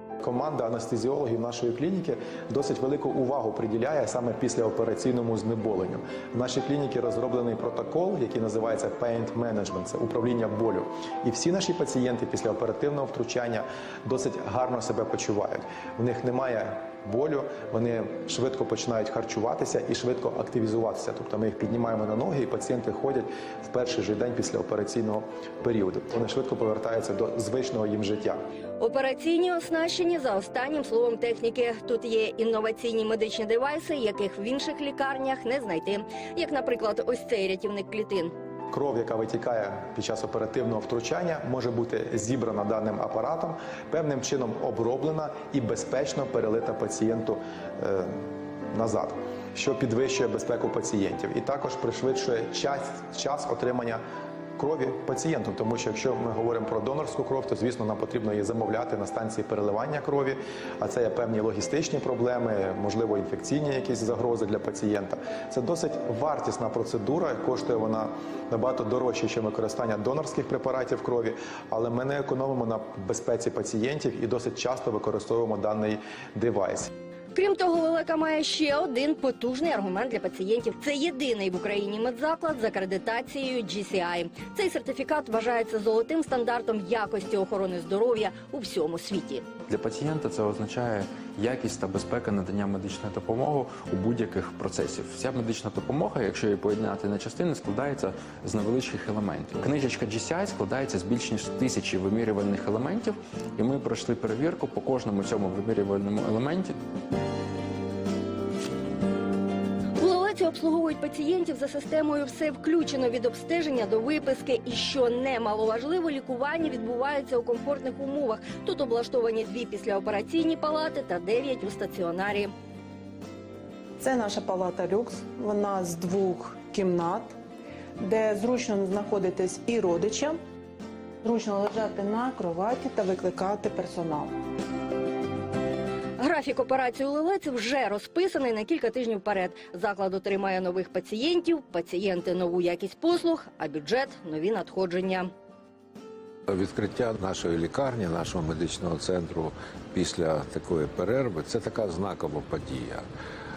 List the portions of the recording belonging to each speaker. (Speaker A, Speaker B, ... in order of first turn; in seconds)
Speaker A: 0.2-28.4, 38.7-48.1, 48.7-54.0, 54.6-76.9
Speaker B: 28.8-38.3, 77.3-89.5, 110.0-122.5, 136.2-145.3
Speaker C: 89.7-106.7
Speaker D: 124.0-127.3, 128.0-130.3, 131.2-134.3
Speaker E: 146.5-153.1